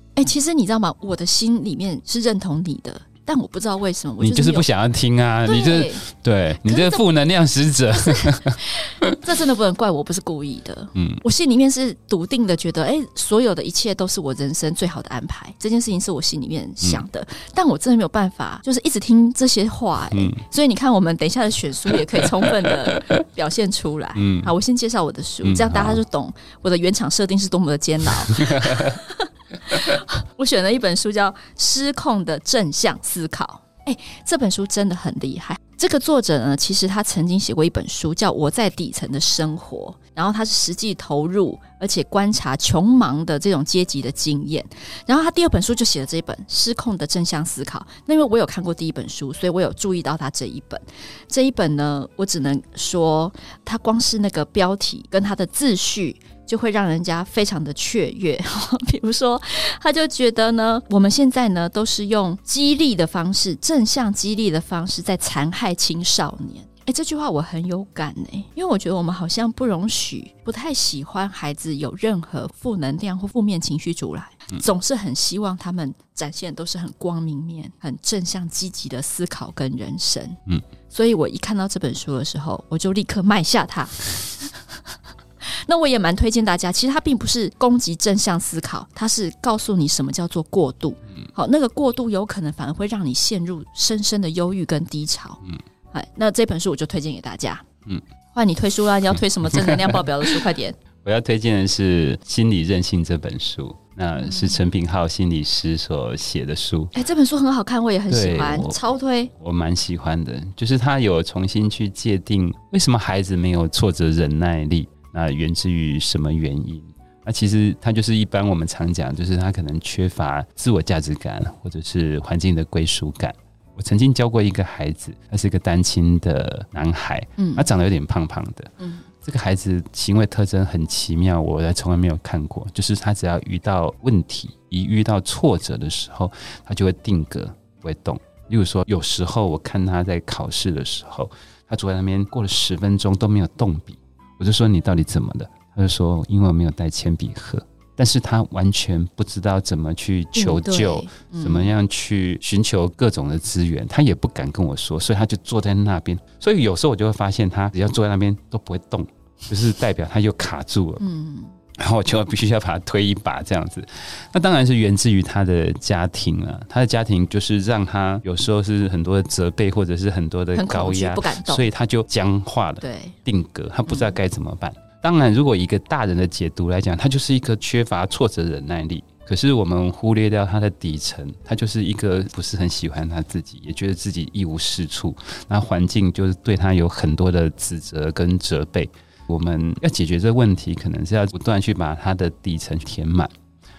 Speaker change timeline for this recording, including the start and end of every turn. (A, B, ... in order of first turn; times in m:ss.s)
0:00.2-0:04.7 A
0:04.2-0:09.1 B
0:05.4-0:06.0 A
0:06.6-0:07.0 A
0:07.9-1:24.5 A
0:11.0-0:11.2 B
0:20.1-0:20.4 B
0:24.2-0:24.5 B
0:25.4-0:26.0 B
0:28.4-0:29.0 B
1:25.4-1:35.4 A
1:35.9-1:37.6 A
1:38.3-1:40.8 A
1:39.5-1:40.0 B
1:41.0-1:46.9 B
1:44.2-1:44.6 A
1:46.9-1:49.3 A
1:48.1-1:48.8 B
1:49.3-2:41.0 B
2:07.4-2:07.7 A
2:30.4-2:31.7 A
2:41.0-2:41.6 A
2:41.8-3:13.3 B
2:50.6-2:51.7 A
2:52.8-2:53.2 A
2:53.9-2:54.1 A